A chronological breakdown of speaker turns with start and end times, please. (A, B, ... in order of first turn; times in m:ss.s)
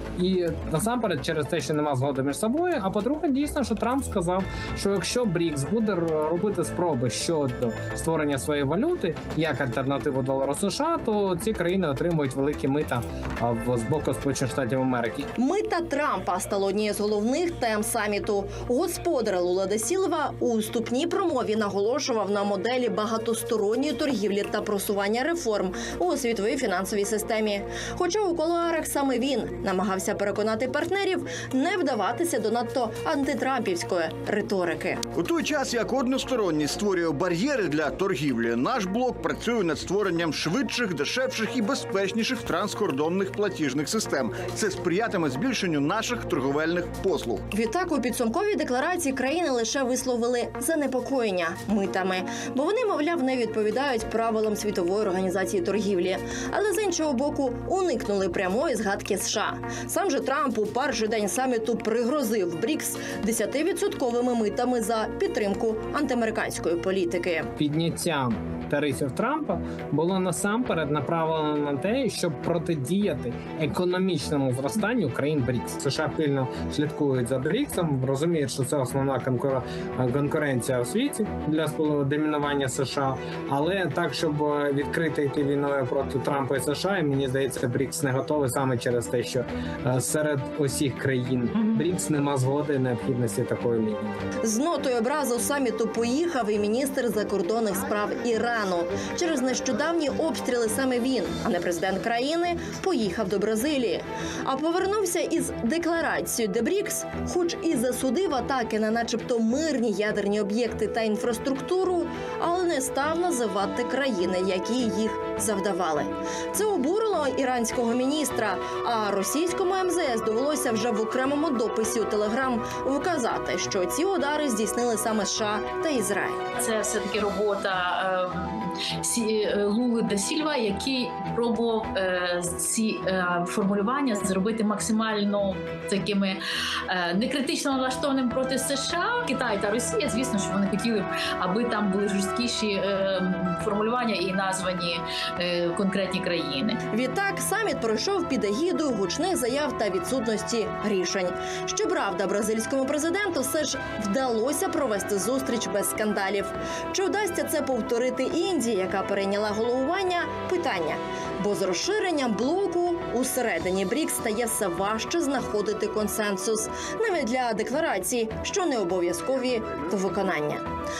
0:00.2-0:15.3 A
0:15.4-0:35.0 B
0:35.1-0:47.4 C
0:47.5-1:07.5 B
1:07.6-1:34.2 A
1:34.4-2:06.4 B
2:06.6-2:26.8 D
2:26.9-2:50.6 B